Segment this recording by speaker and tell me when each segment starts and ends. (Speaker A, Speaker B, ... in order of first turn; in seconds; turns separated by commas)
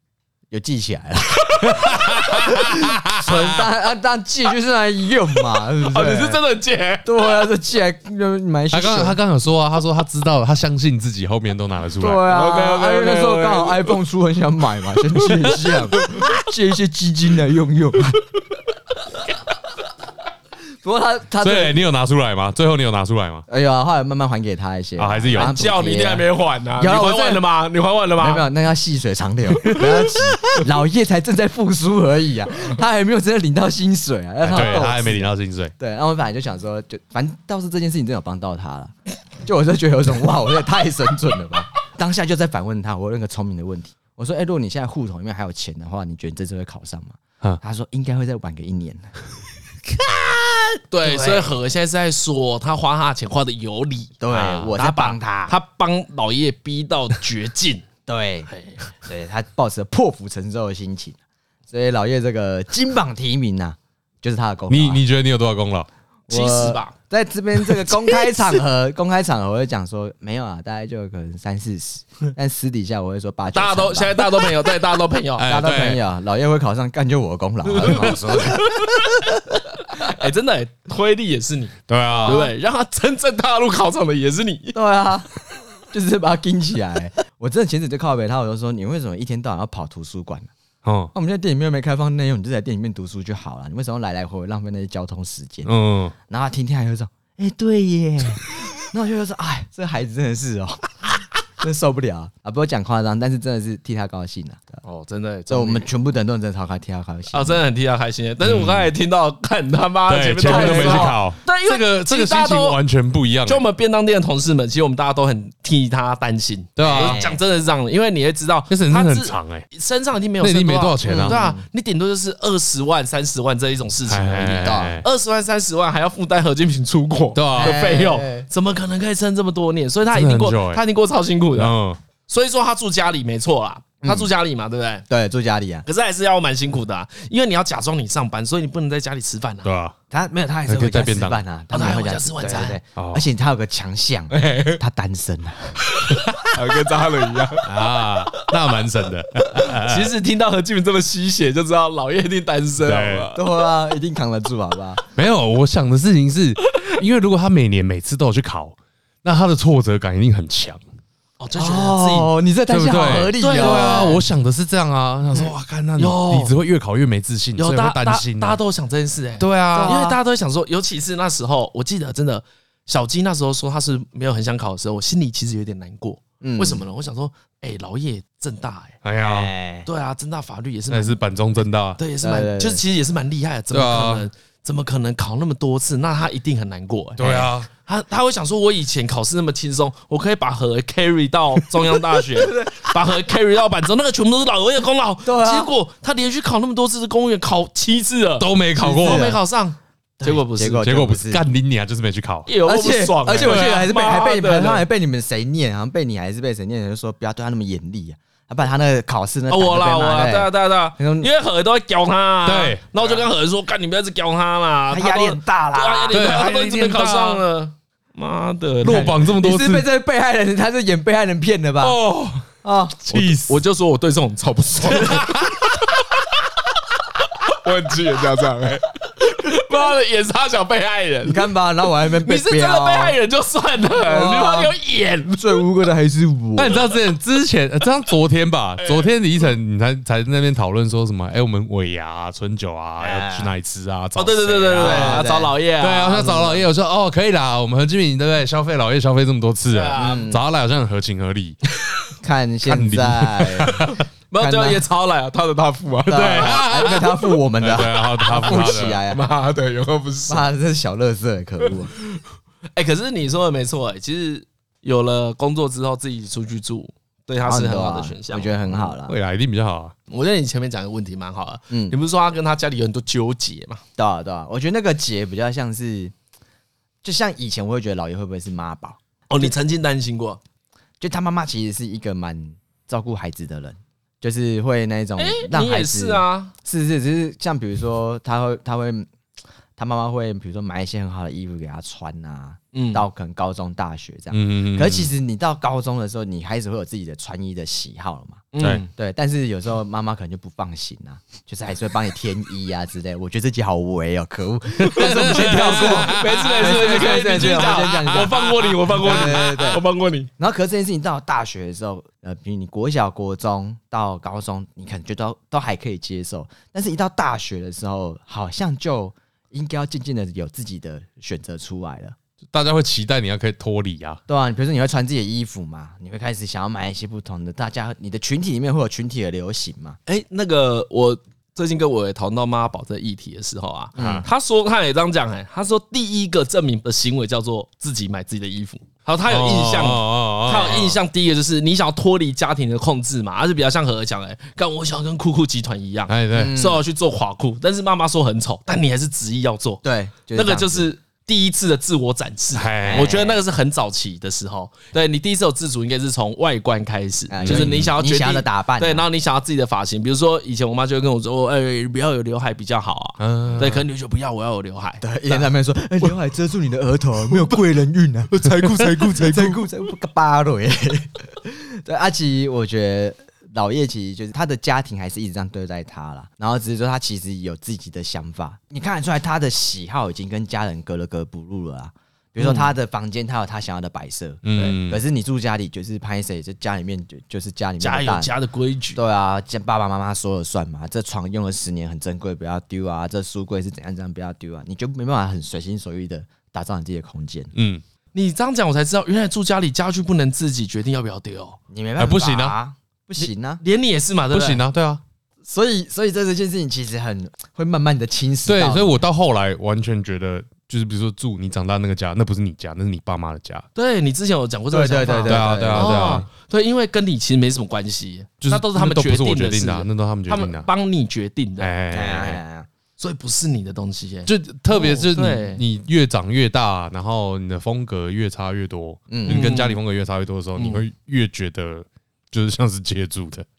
Speaker A: 0.5-6.4, Speaker B: 1.6-3.6, Speaker C: 5.8-7.1, Speaker A: 7.0-9.2, Speaker B: 8.7-12.2, Speaker A: 12.0-18.4, Speaker C: 12.2-13.9, Speaker A: 20.8-21.8, Speaker B: 21.4-23.4, Speaker A: 23.5-26.2, Speaker B: 25.0-25.6, Speaker C: 25.3-28.4, Speaker A: 26.8-27.4, Speaker A: 28.2-38.9, Speaker B: 29.7-29.9, Speaker B: 34.4-35.7, Speaker A: 39.4-49.1, Speaker C: 50.9-57.8, Speaker A: 51.0-51.5, Speaker A: 54.2-55.5, Speaker A: 58.0-58.5, Speaker C: 58.5-58.9, Speaker A: 59.0-61.2, Speaker A: 61.7-65.0, Speaker B: 64.7-65.9, Speaker C: 66.3-66.9, Speaker A: 66.3-74.5, Speaker C: 73.5-75.5, Speaker B: 75.4-76.0, Speaker A: 75.5-79.4, Speaker B: 77.7-78.6, Speaker C: 77.8-79.0, Speaker C: 79.8-84.8, Speaker B: 81.9-82.5, Speaker A: 82.2-82.5, Speaker A: 84.7-85.3, Speaker A: 85.9-90.5, Speaker B: 90.8-91.1, Speaker A: 91.1-95.7, Speaker B: 95.6-96.1, Speaker A: 96.3-101.0, Speaker A: 101.6-104.8, Speaker C: 104.8-105.9, Speaker A: 105.5-107.6, Speaker C: 107.3-112.8, Speaker B: 108.4-108.9, Speaker B: 110.1-113.6, Speaker A: 110.4-111.2, Speaker C: 113.5-131.7, Speaker B: 116.8-117.2, Speaker A: 116.8-117.4, Speaker B: 118.7-119.7, Speaker B: 120.4-121.4, Speaker A: 121.0-121.6, Speaker B: 124.1-125.0, Speaker A: 124.6-125.0, Speaker B: 127.3-127.8, Speaker A: 127.5-128.5, Speaker B: 130.1-130.8, Speaker B: 131.5-132.0, Speaker C: 132.3-135.0, Speaker A: 134.0-134.3, Speaker A: 135.1-135.8, Speaker C: 135.8-139.7, Speaker B: 139.6-139.9, Speaker A: 140.1-145.8, Speaker B: 140.7-141.4, Speaker C: 141.7-142.8, Speaker B: 142.9-143.2, Speaker C: 144.3-144.8, Speaker C: 145.9-147.7, Speaker B: 147.6-150.1, Speaker C: 149.5-153.4, Speaker B: 152.8-153.3, Speaker A: 153.3-155.0, Speaker B: 155.2-160.8, Speaker C: 161.4-162.3, Speaker A: 161.6-164.2, Speaker B: 162.7-168.6, Speaker C: 163.4-164.2, Speaker C: 165.3-166.5, Speaker C: 167.6-179.0, Speaker B: 169.4-170.0, Speaker A: 169.7-170.2, Speaker A: 176.4-176.8, Speaker B: 179.0-179.5, Speaker A: 179.2-179.9, Speaker C: 179.8-181.2, Speaker B: 180.9-182.0, Speaker C: 182.0-200.8, Speaker A: 182.2-182.8, Speaker B: 183.7-184.3, Speaker B: 187.2-187.7, Speaker A: 192.4-192.9, Speaker A: 195.2-195.7, Speaker B: 198.4-199.3, Speaker A: 198.9-199.4, Speaker A: 200.2-201.4, Speaker B: 200.8-202.5, Speaker C: 202.5-204.8, Speaker A: 202.6-211.3, Speaker B: 203.3-203.8, Speaker C: 209.5-219.2, Speaker B: 212.4-213.0, Speaker A: 214.9-216.2, Speaker B: 216.1-217.4, Speaker B: 218.8-219.9, Speaker A: 218.9-222.0, Speaker B: 221.8-222.5, Speaker A: 222.6-223.3, Speaker B: 223.1-223.6, Speaker C: 223.3-225.7, Speaker B: 225.0-225.5, Speaker C: 227.4-231.5, Speaker A: 231.2-233.2, Speaker C: 232.2-235.6, Speaker A: 234.0-234.7, Speaker A: 235.4-236.8, Speaker B: 236.6-251.6, Speaker C: 238.8-239.1, Speaker A: 243.0-243.5, Speaker C: 244.2-246.6, Speaker A: 244.7-245.5, Speaker C: 249.7-250.3, Speaker A: 250.0-250.4, Speaker A: 252.2-254.8, Speaker B: 252.6-254.0, Speaker C: 254.3-256.7, Speaker B: 256.1-259.0, Speaker A: 256.1-259.2, Speaker C: 258.5-260.5, Speaker A: 260.3-261.9, Speaker C: 261.9-262.2, Speaker C: 262.7-268.6, Speaker A: 267.4-269.1, Speaker B: 268.9-269.9, Speaker C: 270.1-273.8, Speaker A: 271.7-271.9, Speaker A: 274.0-276.1, Speaker A: 277.0-279.5, Speaker C: 279.3-280.4, Speaker A: 281.0-289.1, Speaker C: 285.2-286.5, Speaker A: 289.8-309.8, Speaker C: 292.7-293.0, Speaker B: 294.3-295.1, Speaker C: 298.5-298.9, Speaker C: 304.9-310.3, Speaker B: 304.9-308.6, Speaker A: 310.4-322.1, Speaker B: 322.5-324.2, Speaker A: 324.3-330.0, Speaker C: 330.1-349.8, Speaker B: 333.9-334.2, Speaker A: 333.9-334.2, Speaker B: 339.3-341.0, Speaker B: 346.1-346.5, Speaker A: 346.3-346.8, Speaker A: 349.8-350.9, Speaker C: 350.3-365.4, Speaker B: 352.5-353.1, Speaker A: 352.8-353.4, Speaker A: 357.3-359.0, Speaker B: 357.4-357.9, Speaker B: 363.2-363.8, Speaker A: 365.0-388.3, Speaker C: 368.3-369.6, Speaker B: 368.4-369.2, Speaker C: 382.4-382.7, Speaker B: 384.4-385.0, Speaker C: 387.8-389.0, Speaker A: 388.9-397.5, Speaker B: 397.5-397.8, Speaker C: 398.1-401.6, Speaker A: 401.7-403.6, Speaker B: 402.0-402.6, Speaker C: 403.2-404.6, Speaker B: 404.3-405.0, Speaker A: 405.4-409.0, Speaker B: 408.4-413.6, Speaker C: 413.7-421.7, Speaker A: 414.7-416.2, Speaker B: 415.3-416.2, Speaker B: 418.4-420.7, Speaker B: 421.6-422.4, Speaker A: 421.9-422.7, Speaker C: 423.0-425.6, Speaker B: 424.3-433.4, Speaker A: 429.1-429.6, Speaker C: 429.2-429.8, Speaker C: 430.6-430.8